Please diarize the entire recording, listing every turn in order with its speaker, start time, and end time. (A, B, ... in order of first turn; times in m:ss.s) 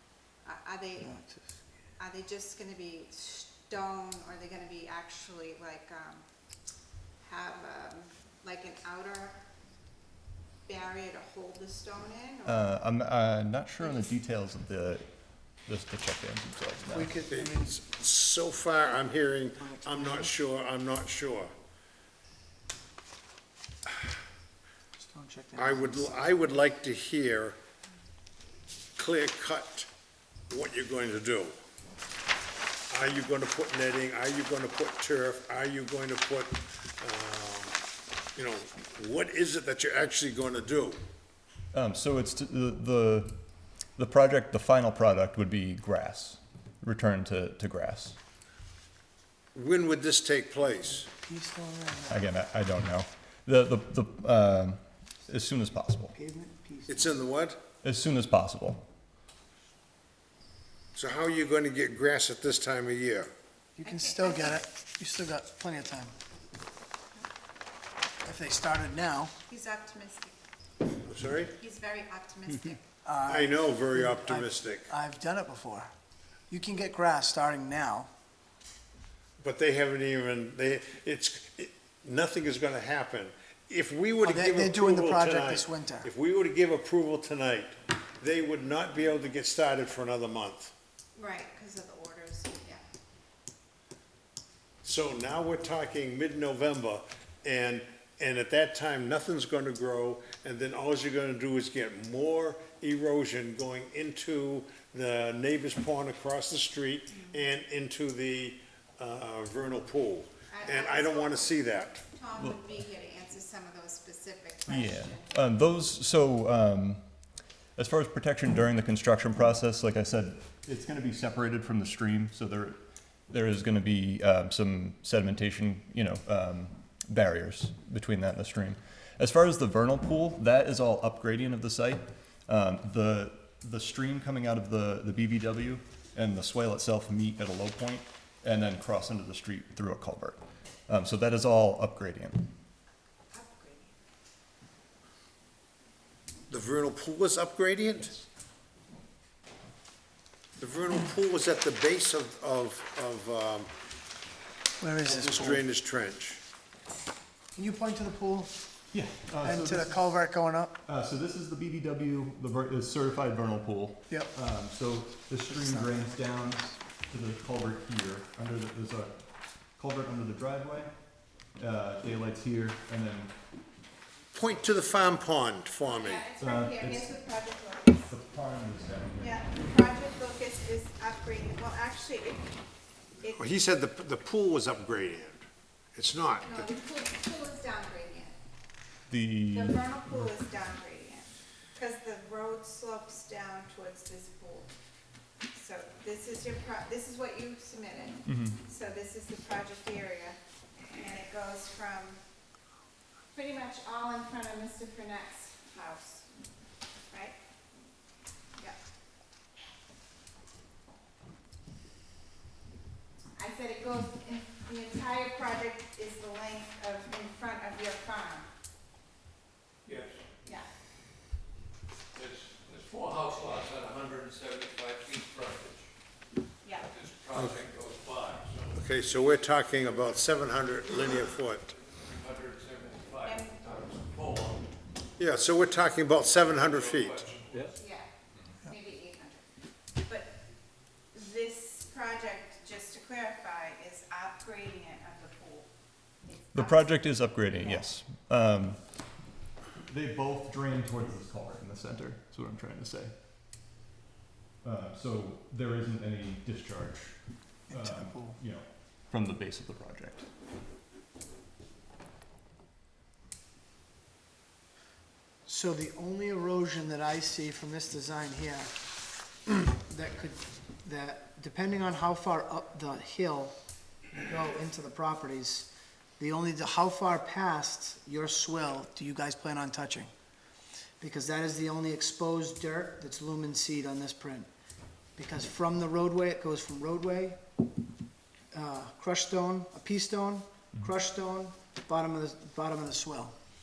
0:00.4-0:01.1 A
0:01.0-0:01.6 B
0:02.0-0:06.2 A
0:07.2-0:09.4 A
0:10.6-0:12.8 A
0:12.4-0:15.1 C
0:13.8-0:14.1 A
0:15.6-0:17.1 C
0:16.9-0:17.7 B
0:17.3-0:21.5 D
0:19.6-0:20.3 B
0:25.0-0:26.3 B
0:25.6-0:27.6 D
0:29.0-0:29.9 D
0:30.5-0:31.6 D
0:32.9-0:37.8 D
0:38.4-0:41.0 D
0:41.7-0:43.4 C
0:44.0-0:48.2 C
0:49.5-0:51.1 D
0:51.2-0:52.3 B
0:52.1-0:56.1 C
0:56.1-0:57.2 B
0:56.9-0:57.6 D
0:57.8-0:58.8 C
1:00.9-1:03.3 D
1:03.8-1:06.1 B
1:03.8-1:04.6 A
1:08.2-1:09.3 B
1:09.5-1:10.4 A
1:11.0-1:11.5 D
1:11.6-1:12.8 A
1:13.0-1:15.9 B
1:13.3-1:14.9 D
1:16.5-1:18.1 B
1:19.4-1:30.7 D
1:24.2-1:26.1 B
1:31.2-1:32.8 A
1:34.8-1:52.0 D
1:47.1-1:47.4 A
1:50.5-1:55.3 A
1:52.4-1:52.6 C
1:54.7-1:57.0 C
1:57.8-2:22.5 C
2:23.3-2:23.9 A
2:26.5-2:28.2 D
2:30.6-2:33.7 D
2:34.8-2:35.6 B
2:35.0-2:36.4 D
2:37.5-2:38.5 B
2:38.9-2:40.0 C
2:39.4-2:40.8 B
2:40.8-2:49.2 C
2:45.5-2:46.2 B
2:49.8-2:50.9 C
2:51.6-2:53.3 C
2:54.3-2:56.2 D
2:55.8-2:58.1 A
2:56.4-2:57.2 C
2:58.1-2:59.4 C
2:59.2-3:02.4 A
3:03.3-3:06.7 D
3:06.4-3:08.4 A
3:09.1-3:10.3 C
3:09.5-3:14.7 A
3:15.5-3:20.4 A
3:18.2-3:18.6 C
3:20.9-3:22.2 A
3:23.3-3:26.3 A
3:27.1-3:27.4 A
3:33.4-3:38.5 A
3:39.8-3:40.2 E
3:42.1-3:45.9 E
3:46.6-3:46.9 A
3:46.8-3:49.3 E
3:47.3-3:47.6 D
3:48.7-3:51.7 D
3:52.0-3:54.6 E
3:53.2-3:53.6 A
3:55.2-3:57.3 D
3:56.2-3:57.7 E
3:57.8-3:58.1 A
3:58.6-3:59.4 A
4:00.0-4:00.3 A
4:01.1-4:05.7 A
4:06.2-4:07.8 A
4:06.5-4:08.8 C
4:09.9-4:13.1 C
4:14.6-4:20.3 C
4:17.7-4:18.4 B
4:25.4-4:28.7 B
4:29.4-4:33.5 B
4:34.2-4:40.1 B
4:41.0-4:44.5 B
4:45.2-4:47.4 B
4:48.5-4:53.3 B